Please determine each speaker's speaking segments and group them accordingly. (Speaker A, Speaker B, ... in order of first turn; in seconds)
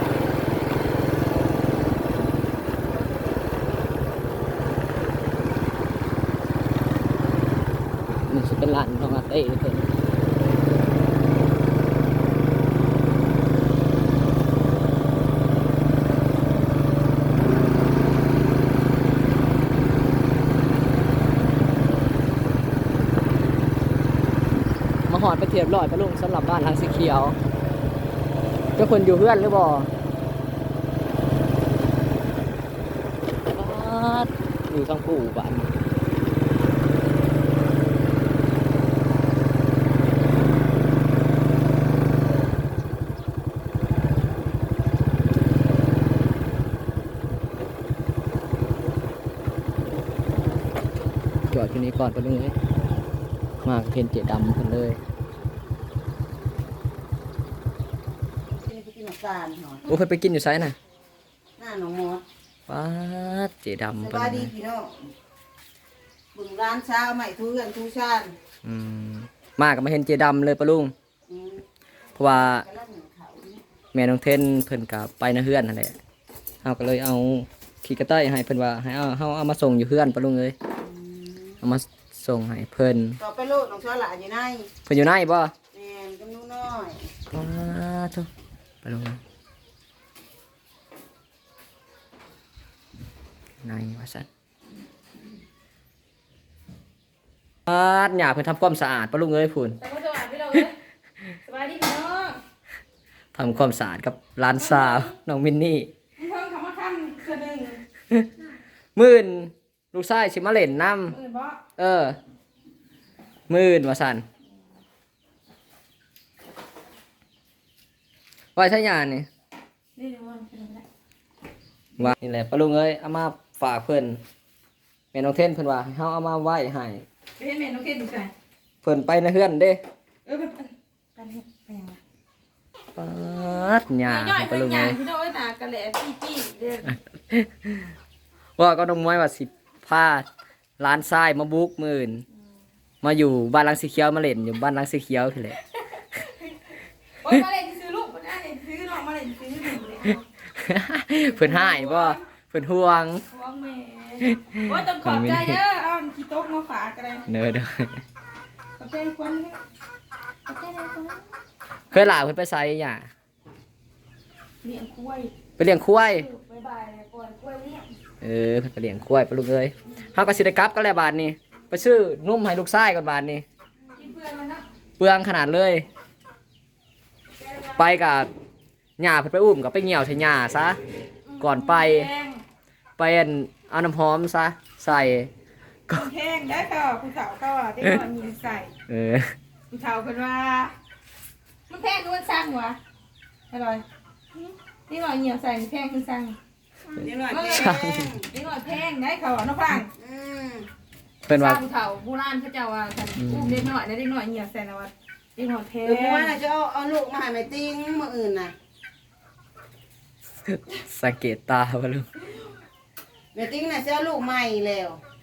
Speaker A: 8.3-9.9, 25.1-27.4, 28.8-29.9, 33.5-35.7, 51.5-52.6, 53.6-55.0, 59.9-60.8, 62.7-64.5, 68.7-70.9, 72.2-72.7, 73.9-76.0, 76.6-80.6, 81.6-83.2, 84.9-85.5, 87.3-88.3, 88.8-89.2, 93.6-94.3, 97.7-99.8, 103.3-105.9, 109.0-111.2, 111.8-112.2, 113.5-114.2, 118.6-119.3, 122.0-124.2, 125.1-127.0, 128.8-129.8, 133.0-135.0, 137.2-137.9, 138.6-140.3, 140.8-142.2, 143.0-145.6, 150.6-153.2, 154.2-155.6, 157.3-158.0, 161.9-163.1, 165.6-166.3, 168.2-173.4, 175.0-175.9, 177.7-178.3, 179.0-180.8, 181.4-182.1, 183.0-185.3, 188.9-189.3, 197.6-198.2, 201.2-201.6, 203.2-203.7, 210.5-212.1
Speaker B: 58.5-59.9, 61.6-62.2, 64.0-65.1, 66.3-68.3, 71.3-71.6, 72.2-73.6, 80.8-81.6, 83.2-84.7, 85.7-87.1, 197.0-198.3, 199.9-200.7, 205.8-208.5, 213.3-215.0
Speaker C: 99.8-100.8, 101.3-102.4, 104.5-105.1, 106.2-107.8, 111.1-111.6, 120.0-120.8, 127.4-128.3, 130.3-132.0, 134.0-137.0, 147.2-150.2, 151.3-152.2, 153.3-157.2, 158.8-159.6, 160.5-161.2, 164.6-165.3, 166.1-167.9, 173.9-174.7, 181.3-182.4, 185.9-188.7, 189.7-190.7, 191.7-192.8, 193.5-193.8, 194.4-196.4, 197.0-199.9, 201.3-206.4